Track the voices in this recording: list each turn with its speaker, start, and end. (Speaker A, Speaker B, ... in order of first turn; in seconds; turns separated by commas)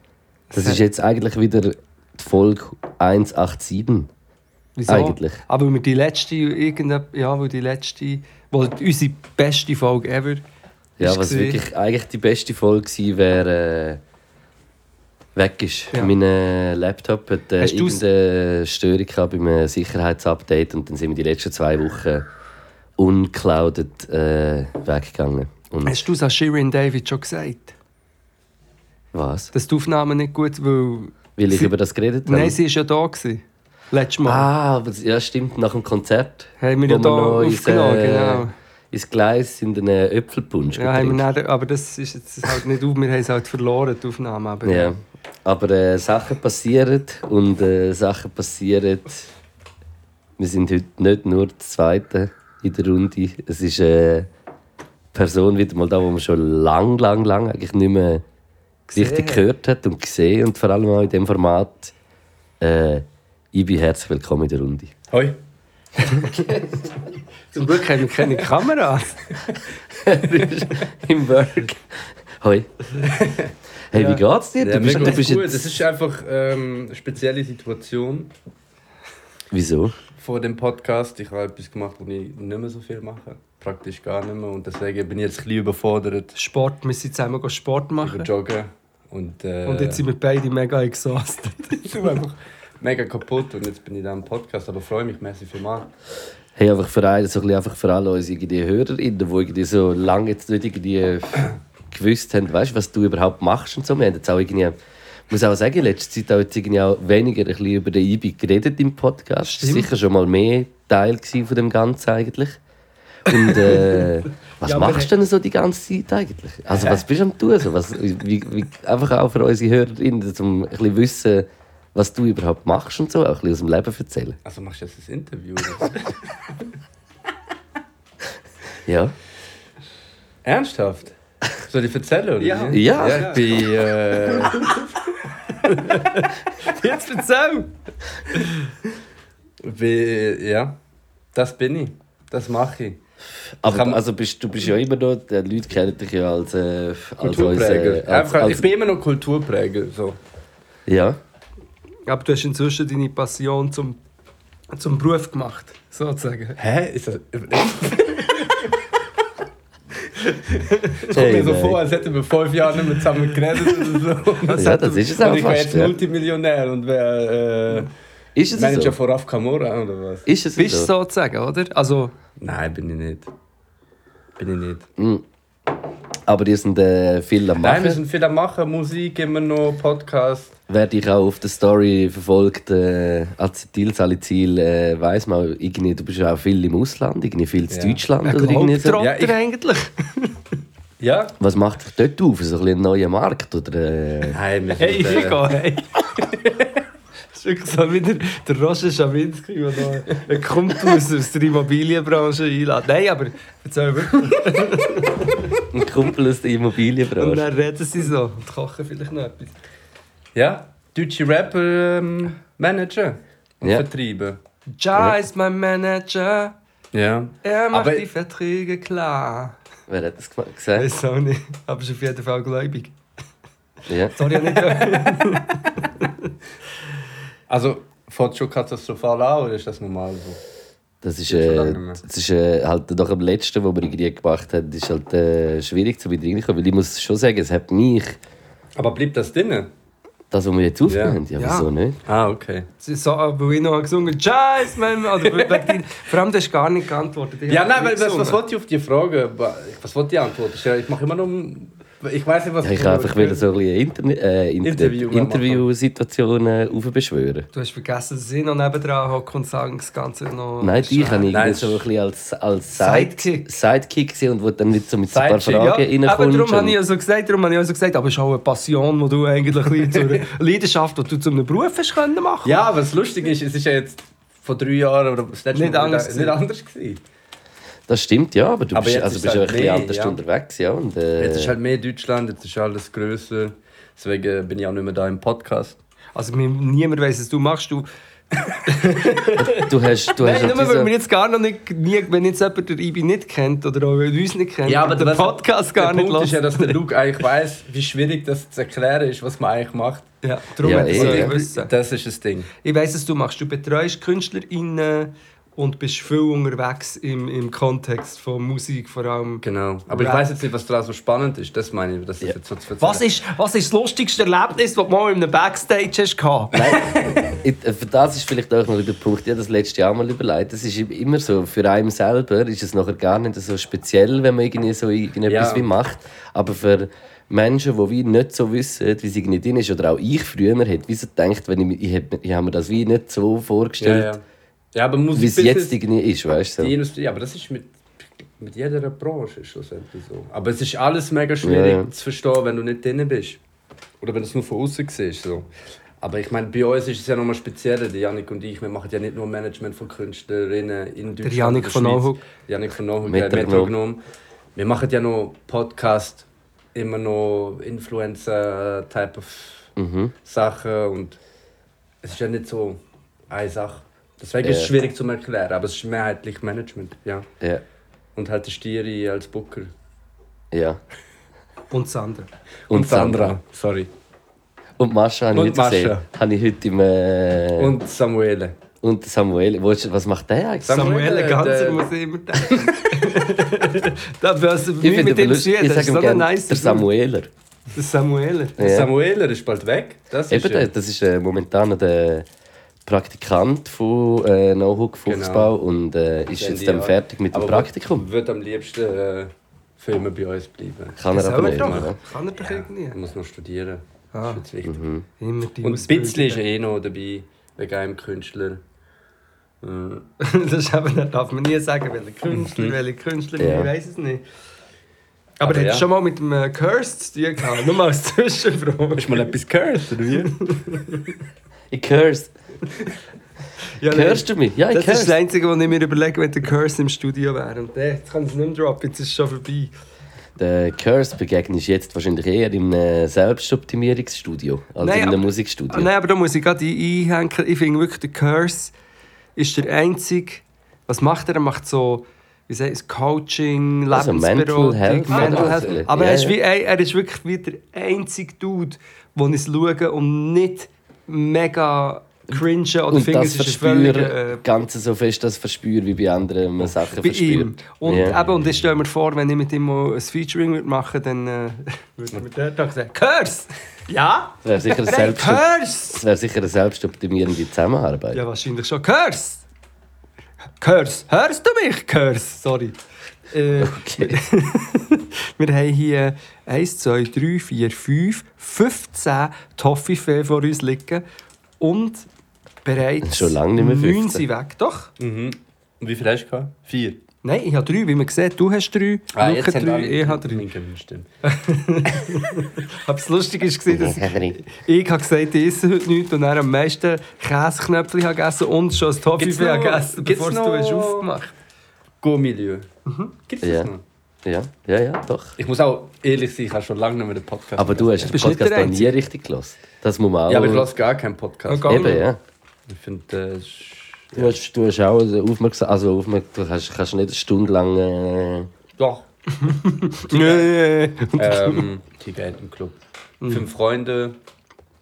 Speaker A: 0.5-0.8, Speaker B: 0.5-4.1, Speaker A: 4.8-10.4, Speaker B: 4.9-5.4, Speaker B: 11.0-14.0, Speaker A: 11.0-11.6, Speaker B: 15.3-22.2, Speaker A: 17.6-18.0, Speaker B: 23.0-26.0, Speaker A: 25.9-27.7, Speaker B: 29.1-29.5, Speaker A: 29.5-31.7, Speaker B: 31.4-32.6, Speaker A: 32.2-34.5, Speaker B: 34.2-41.2, Speaker A: 36.6-38.5, Speaker A: 40.8-44.9, Speaker B: 44.6-49.3, Speaker B: 50.4-54.3, Speaker B: 55.1-58.2, Speaker A: 58.9-59.4, Speaker B: 58.9-61.9, Speaker B: 62.6-64.9, Speaker C: 65.1-65.4, Speaker A: 66.0-66.7, Speaker A: 67.5-69.3, Speaker B: 70.0-72.7, Speaker C: 73.0-73.5, Speaker B: 73.9-75.6, Speaker A: 73.9-74.2, Speaker C: 74.6-78.3, Speaker B: 79.5-79.9, Speaker C: 80.2-86.3, Speaker A: 86.3-88.3, Speaker C: 88.0-90.0, Speaker A: 89.6-92.3, Speaker C: 91.9-95.9, Speaker B: 96.6-104.8, Speaker B: 105.3-112.6, Speaker A: 109.4-109.9, Speaker B: 113.2-124.4, Speaker A: 113.4-114.1, Speaker A: 114.6-115.1, Speaker C: 124.4-126.1, Speaker B: 128.8-129.1, Speaker C: 130.4-131.1, Speaker C: 131.7-134.8, Speaker A: 132.4-133.5, Speaker B: 132.7-133.7, Speaker A: 135.5-137.7, Speaker A: 138.3-138.7, Speaker C: 139.6-140.8, Speaker C: 141.3-143.0, Speaker B: 143.3-148.6, Speaker C: 143.6-144.0, Speaker C: 147.2-150.2, Speaker B: 150.9-151.2, Speaker A: 152.1-154.0, Speaker A: 154.7-156.6, Speaker C: 156.6-158.7, Speaker C: 160.2-167.9, Speaker B: 161.1-161.8, Speaker A: 164.4-165.2, Speaker B: 164.5-165.9, Speaker B: 168.3-168.9, Speaker C: 168.5-170.3, Speaker B: 170.2-170.9, Speaker A: 170.6-172.1, Speaker C: 172.4-173.3, Speaker C: 174.4-174.9, Speaker B: 175.0-175.2, Speaker B: 176.2-178.0, Speaker C: 177.6-180.6, Speaker B: 180.7-189.0, Speaker C: 187.7-188.0, Speaker A: 188.2-190.4, Speaker C: 189.0-189.3, Speaker C: 191.0-191.3, Speaker B: 191.4-194.4, Speaker C: 194.3-195.5, Speaker A: 194.8-195.9, Speaker A: 197.3-205.6, Speaker B: 205.7-207.4, Speaker A: 207.2-209.6, Speaker C: 210.3-214.4, Speaker A: 214.7-216.5, Speaker C: 216.9-218.1, Speaker A: 217.4-219.6, Speaker B: 219.9-220.9, Speaker A: 220.8-222.9, Speaker B: 223.9-224.2, Speaker A: 224.1-226.3, Speaker C: 227.5-230.4, Speaker B: 231.0-238.2, Speaker C: 231.3-232.0, Speaker C: 238.8-239.7, Speaker B: 240.3-242.0, Speaker C: 240.8-241.2, Speaker A: 241.4-241.7, Speaker C: 242.1-242.7, Speaker A: 242.8-248.4, Speaker C: 245.2-245.7, Speaker C: 247.5-253.5, Speaker B: 252.6-257.5, Speaker C: 254.6-255.7, Speaker A: 257.5-261.4, Speaker B: 260.6-266.8, Speaker C: 261.3-261.8, Speaker A: 262.8-263.5, Speaker C: 265.1-265.7, Speaker A: 265.5-272.6, Speaker C: 272.4-277.0, Speaker A: 275.5-276.4, Speaker B: 277.9-281.5, Speaker C: 278.7-280.2, Speaker C: 281.2-285.8, Speaker A: 286.1-287.9, Speaker A: 288.5-296.8, Speaker B: 289.4-290.9, Speaker C: 294.6-300.1, Speaker A: 300.2-301.7, Speaker B: 300.6-301.3, Speaker C: 300.9-302.5, Speaker A: 302.6-310.2, Speaker C: 309.4-313.0, Speaker A: 312.8-316.8, Speaker B: 316.5-334.1, Speaker C: 325.2-325.7, Speaker C: 333.8-334.2, Speaker C: 334.7-335.8, Speaker B: 335.1-336.7, Speaker C: 336.6-337.7, Speaker C: 338.4-343.4, Speaker B: 341.4-341.9, Speaker C: 344.0-345.5, Speaker C: 346.0-354.0, Speaker A: 351.2-352.2, Speaker B: 353.0-353.7, Speaker C: 354.6-359.7, Speaker B: 359.8-360.1, Speaker C: 360.2-361.2, Speaker C: 362.0-367.3, Speaker B: 364.4-364.7, Speaker C: 368.1-369.7, Speaker B: 370.5-370.8, Speaker A: 371.7-372.3, Speaker B: 372.7-373.4, Speaker C: 372.7-373.9, Speaker B: 374.8-377.8, Speaker C: 375.3-376.1, Speaker C: 377.6-378.6, Speaker B: 378.8-380.9, Speaker C: 380.6-383.0, Speaker A: 380.7-386.9, Speaker B: 384.8-387.3, Speaker A: 387.7-388.6, Speaker B: 388.6-388.9, Speaker C: 388.6-390.7, Speaker B: 390.3-392.2, Speaker B: 392.9-398.1, Speaker C: 395.1-395.5, Speaker C: 396.3-404.8, Speaker B: 401.0-402.0, Speaker A: 401.1-403.0, Speaker A: 404.1-404.4, Speaker B: 404.6-405.0, Speaker A: 405.2-406.4, Speaker C: 405.6-408.6, Speaker C: 409.6-410.1, Speaker A: 410.2-414.2, Speaker C: 412.3-412.8, Speaker B: 413.4-413.7, Speaker A: 415.4-419.3, Speaker C: 415.4-415.9, Speaker C: 419.0-420.3, Speaker A: 420.2-421.1, Speaker B: 421.7-422.3, Speaker A: 423.8-429.7, Speaker B: 423.9-425.2, Speaker B: 430.4-435.9, Speaker A: 434.8-438.7, Speaker A: 439.4-454.4, Speaker B: 443.9-446.4, Speaker C: 445.1-445.9, Speaker B: 452.9-458.1, Speaker C: 456.6-457.0, Speaker A: 457.0-466.0, Speaker C: 457.9-458.6, Speaker B: 464.4-468.2, Speaker A: 468.1-469.4, Speaker A: 470.6-472.8, Speaker A: 473.3-481.0, Speaker B: 473.6-474.2, Speaker A: 481.6-482.1, Speaker A: 482.6-484.9, Speaker B: 483.0-484.2, Speaker C: 485.0-487.0, Speaker A: 487.2-490.4, Speaker C: 489.1-491.1, Speaker A: 491.2-501.3, Speaker B: 493.7-494.4, Speaker C: 499.2-501.1, Speaker C: 502.0-502.7, Speaker A: 502.9-503.1, Speaker C: 503.3-503.8, Speaker B: 503.4-503.7, Speaker B: 504.2-505.4, Speaker C: 505.4-508.3, Speaker B: 507.6-510.7, Speaker A: 508.1-508.9, Speaker C: 510.3-512.0, Speaker A: 511.5-512.1, Speaker B: 511.7-512.2, Speaker C: 512.7-514.4, Speaker B: 514.1-518.5, Speaker C: 518.8-519.0, Speaker A: 519.4-521.7, Speaker C: 520.1-520.5, Speaker C: 521.1-524.2, Speaker A: 523.2-523.5